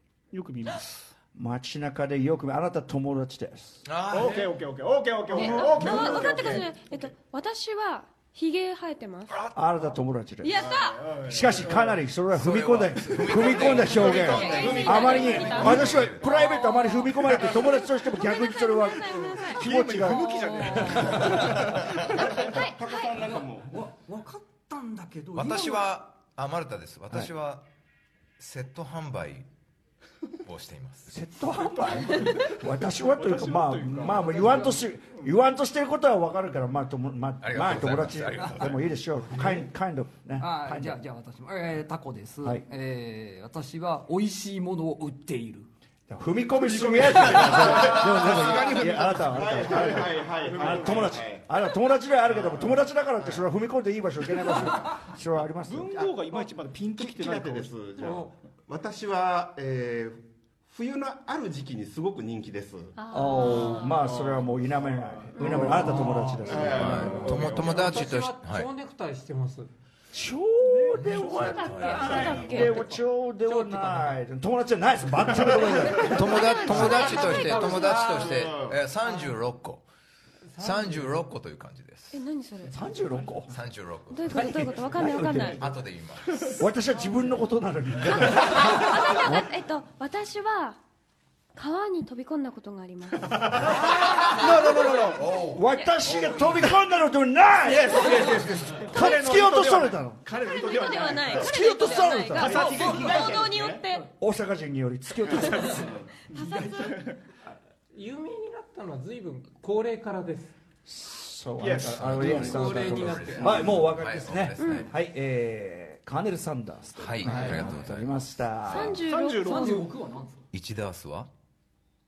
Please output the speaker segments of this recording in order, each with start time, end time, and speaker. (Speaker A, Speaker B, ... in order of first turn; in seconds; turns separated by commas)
Speaker A: 0.3-1.1, Speaker B: 1.3-3.9, Speaker C: 3.8-4.5, Speaker A: 4.1-7.1, Speaker D: 5.3-9.4, Speaker C: 9.3-9.8, Speaker B: 9.5-10.6, Speaker D: 10.4-11.0, Speaker A: 10.5-12.0, Speaker B: 11.3-21.8, Speaker C: 12.3-16.4, Speaker A: 13.4-15.8, Speaker D: 13.8-19.6, Speaker A: 19.5-22.0, Speaker D: 20.2-20.9, Speaker E: 20.3-21.1, Speaker F: 21.4-23.8, Speaker D: 22.1-23.2, Speaker E: 23.2-25.9, Speaker C: 25.3-27.6, Speaker C: 28.4-29.5, Speaker C: 30.4-31.1, Speaker B: 31.1-41.0, Speaker A: 31.5-35.3, Speaker C: 37.4-39.0, Speaker E: 40.4-45.7, Speaker B: 46.1-56.0, Speaker A: 46.6-51.3, Speaker F: 47.2-51.5, Speaker A: 55.6-57.9, Speaker F: 55.9-63.0, Speaker G: 58.0-58.3, Speaker D: 63.0-64.0, Speaker B: 63.1-67.4, Speaker A: 63.5-66.3, Speaker D: 65.4-66.7, Speaker F: 65.4-68.1, Speaker G: 65.7-66.7, Speaker C: 66.6-68.7, Speaker A: 67.0-67.4, Speaker G: 67.4-69.7, Speaker B: 70.1-77.2, Speaker A: 70.6-72.9, Speaker C: 70.9-72.7, Speaker D: 71.3-72.9, Speaker G: 73.4-74.2, Speaker D: 75.8-78.0, Speaker C: 75.9-79.8, Speaker G: 77.2-77.9, Speaker F: 77.5-78.8, Speaker G: 80.5-81.2, Speaker C: 80.6-82.2, Speaker D: 82.1-82.8, Speaker B: 82.7-83.5, Speaker C: 83.5-84.5, Speaker D: 84.1-85.6, Speaker B: 84.3-85.7, Speaker C: 85.4-86.6, Speaker B: 86.6-89.5, Speaker C: 88.0-88.7, Speaker D: 88.1-90.8, Speaker D: 91.5-95.1, Speaker A: 93.2-95.2, Speaker B: 93.6-100.2, Speaker C: 94.2-94.5, Speaker C: 95.1-95.7, Speaker D: 95.6-96.3, Speaker A: 97.6-101.5, Speaker D: 97.9-98.3, Speaker D: 98.9-99.2, Speaker D: 100.3-104.1, Speaker B: 101.3-102.8, Speaker A: 102.3-103.8, Speaker F: 102.4-103.8, Speaker B: 104.2-106.0, Speaker A: 105.3-105.9, Speaker F: 105.8-106.1, Speaker D: 106.3-107.0, Speaker E: 106.3-107.0, Speaker A: 106.8-107.2, Speaker G: 107.9-110.5, Speaker B: 110.8-119.0, Speaker A: 111.6-112.0, Speaker C: 111.9-114.9, Speaker G: 112.0-113.6, Speaker F: 113.4-113.7, Speaker D: 114.6-114.9, Speaker C: 117.0-119.0, Speaker E: 117.2-117.7, Speaker D: 118.7-119.8, Speaker A: 119.0-119.9, Speaker E: 119.4-120.4, Speaker C: 120.5-121.3